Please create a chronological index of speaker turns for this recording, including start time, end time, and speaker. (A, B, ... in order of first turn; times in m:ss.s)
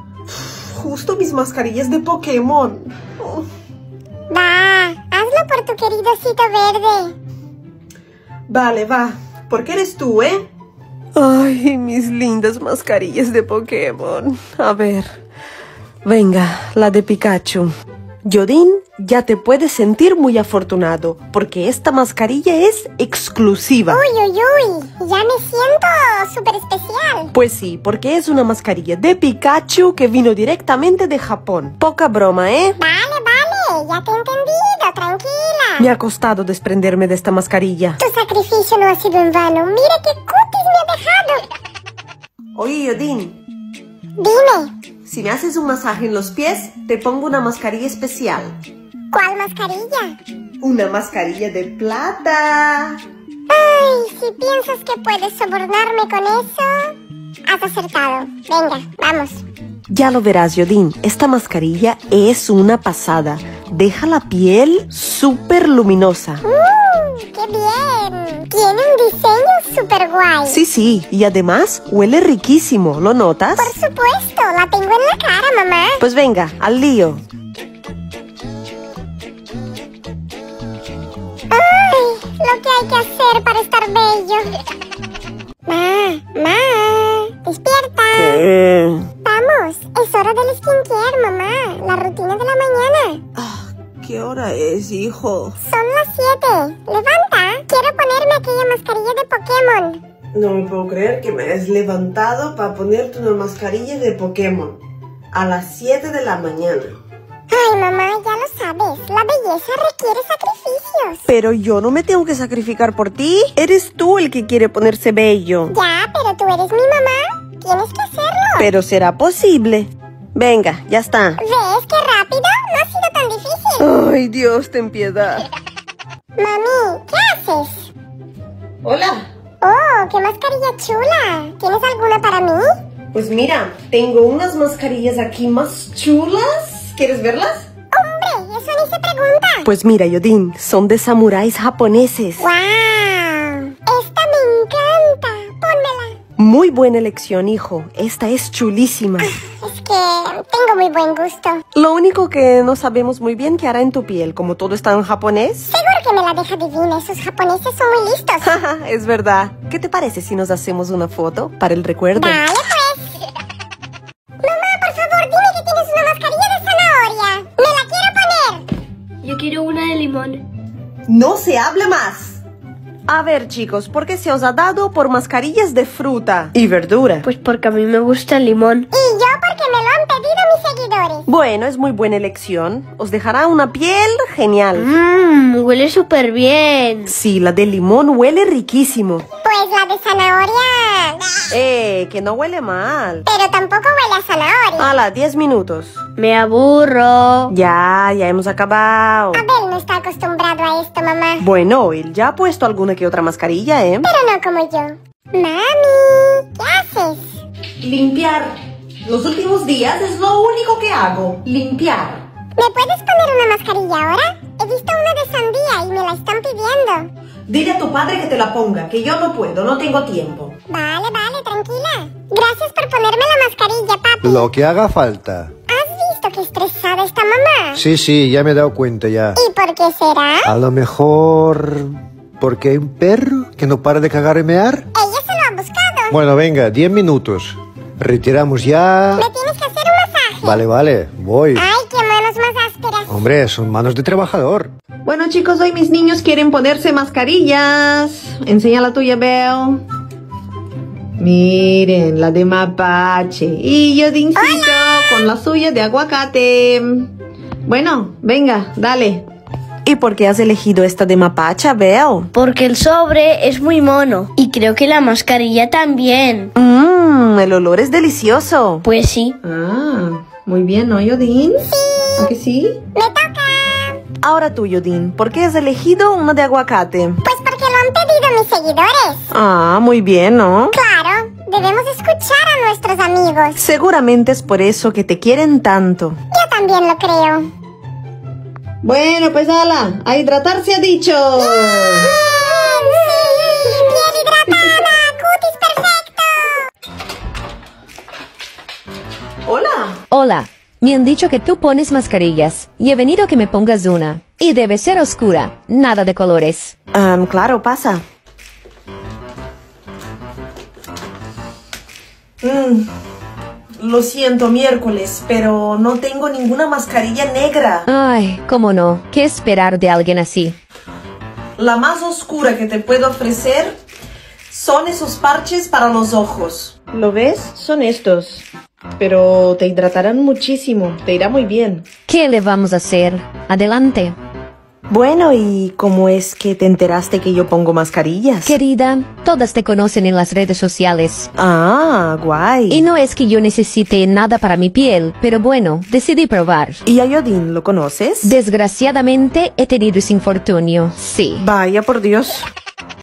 0:00.3-0:03.4 A
0:04.3-0:07.1 B
0:08.5-0:10.5 A
0:11.2-0:15.2 A
0:16.0-0:17.7 A
0:18.2-0:24.0 A
0:23.9-0:27.3 B
0:27.3-0:32.8 A
0:32.8-0:35.9 B
0:35.8-0:38.0 A
0:38.0-0:41.5 B
0:42.6-0:43.4 A
0:44.2-0:44.7 B
0:45.0-0:48.6 A
0:49.1-0:50.2 B
0:50.6-0:53.0 A
0:53.5-0:57.0 B
0:57.5-0:59.4 B
0:59.9-1:06.4 A
1:06.4-1:10.6 B
1:10.5-1:13.7 A
1:13.6-1:16.0 B
1:16.0-1:17.2 A
1:21.5-1:24.6 B
1:25.7-1:28.4 B
1:28.2-1:29.0 A
1:29.2-1:33.2 B
1:33.4-1:35.6 A
1:35.6-1:40.0 B
1:40.3-1:44.8 A
1:45.3-1:47.0 A
1:47.5-1:51.3 B
1:51.3-1:55.7 A
1:55.7-1:58.7 B
1:58.6-2:01.4 A
2:01.4-2:03.9 B
2:03.8-2:05.4 A
2:06.4-2:07.9 B
2:08.8-2:09.2 A
2:09.6-2:12.7 B
2:13.1-2:17.7 A
2:17.9-2:19.7 B
2:19.6-2:22.5 A
2:22.4-2:26.2 B
2:26.4-2:29.3 A
2:29.2-2:31.6 B
2:31.8-2:35.7 A
2:35.7-2:38.5 B
2:38.4-2:42.4 A
2:42.2-2:43.1 B
2:44.4-2:48.6 B
2:49.2-2:50.4 C
2:51.1-2:52.4 A
2:53.1-2:57.3 A
2:57.2-2:58.9 C
2:58.9-3:01.3 B
3:01.3-3:04.9 A
3:04.8-3:07.2 C
3:07.1-3:09.3 A
3:09.4-3:11.6 B
3:11.5-3:13.2 A
3:13.3-3:14.9 B
3:14.8-3:16.0 A
3:16.2-3:17.5 C
3:17.5-3:19.4 A
3:19.3-3:21.5 B
3:21.4-3:24.0 A
3:24.0-3:27.3 B
3:27.8-3:28.5 A
3:29.0-3:32.2 A
3:32.6-3:37.1 B
3:37.5-3:40.6 A
3:40.7-3:44.5 B
3:44.2-3:45.5 D
3:45.7-3:47.8 B
3:47.8-3:49.4 D
3:49.4-3:50.5 B
3:50.4-3:54.9 D
3:54.9-3:56.2 B
3:56.1-3:59.3 D
3:59.2-4:00.6 B
4:00.4-4:01.6 D
4:01.6-4:03.2 B
4:03.1-4:04.7 D
4:05.1-4:09.8 A
4:11.2-4:17.1 A
4:14.4-4:15.3 B
4:17.7-4:19.2 A
4:19.8-4:22.3 A
4:22.4-4:26.5 C
4:26.6-4:28.8 A
4:28.8-4:29.4 C
4:29.4-4:31.6 A
4:31.7-4:32.3 B
4:32.2-4:32.8 A
4:33.0-4:34.0 B
4:34.2-4:37.2 A
4:37.2-4:39.2 B
4:39.3-4:40.7 A
4:40.7-4:43.6 B
4:43.6-4:46.2 A
4:46.3-4:47.5 B
4:48.8-4:52.2 A
4:51.4-4:56.6 B
4:59.5-5:00.0 A
5:00.1-5:06.7 E
5:06.9-5:08.0 A
5:12.4-5:12.9 A
5:13.8-5:17.9 A
5:17.9-5:20.6 E
5:21.6-5:23.8 A
5:24.5-5:28.5 A
5:29.0-5:31.9 A
5:32.1-5:34.2 E
5:34.9-5:38.6 A
5:38.4-5:41.3 E
5:41.4-5:42.8 A
5:42.7-5:46.8 E
5:46.8-5:48.3 A
5:48.2-5:51.4 E
5:51.4-5:52.5 A